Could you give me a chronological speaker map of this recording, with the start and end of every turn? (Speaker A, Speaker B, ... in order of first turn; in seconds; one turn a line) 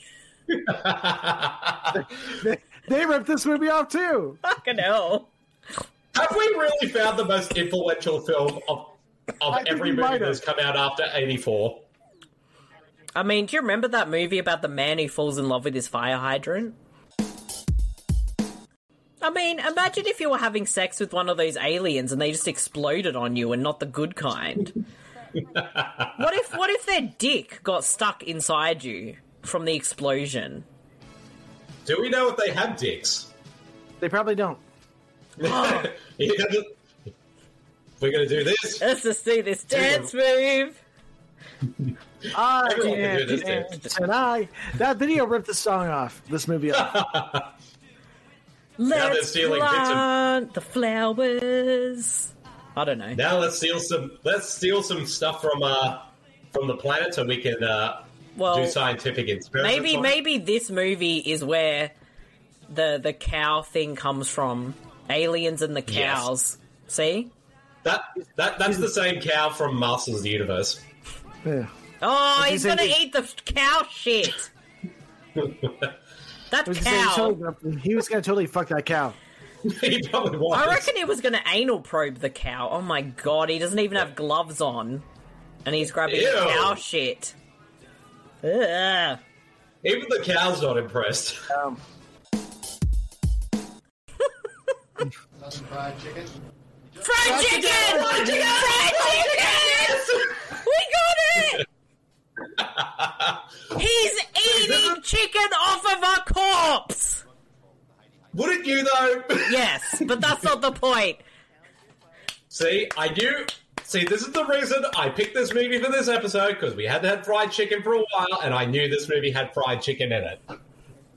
Speaker A: 0.5-2.0
Speaker B: 2.2-4.4
Speaker C: 4.4-5.3
Speaker A: 6.1-11.9
Speaker B: 9.5-10.4
Speaker C: 13.1-16.8
Speaker C: 19.2-24.8
Speaker A: 25.5-26.1
Speaker C: 26.1-30.6
Speaker A: 31.8-33.3
Speaker B: 34.0-34.6
Speaker A: 35.4-36.7
Speaker C: 35.4-35.9
Speaker A: 38.0-38.9
Speaker C: 38.8-40.8
Speaker A: 39.7-40.1
Speaker B: 42.3-47.0
Speaker A: 42.6-43.7
Speaker A: 46.7-47.5
Speaker C: 48.8-53.2
Speaker A: 48.9-50.1
Speaker A: 53.1-60.1
Speaker C: 58.3-58.8
Speaker C: 59.6-61.9
Speaker C: 62.7-67.3
Speaker A: 65.9-66.3
Speaker A: 67.8-70.8
Speaker B: 71.4-71.7
Speaker C: 72.0-74.5
Speaker B: 72.3-73.0
Speaker A: 75.3-75.9
Speaker C: 76.5-77.4
Speaker B: 76.7-79.2
Speaker A: 79.6-80.9
Speaker C: 80.5-85.0
Speaker C: 85.6-87.3
Speaker A: 86.0-86.8
Speaker C: 88.4-89.2
Speaker A: 89.8-91.5
Speaker B: 91.5-91.8
Speaker C: 97.0-101.6
Speaker B: 97.2-98.6
Speaker A: 97.2-100.6
Speaker A: 102.6-103.4
Speaker C: 103.7-107.2
Speaker A: 104.4-105.0
Speaker A: 108.3-110.4
Speaker C: 109.4-111.2
Speaker A: 112.5-120.4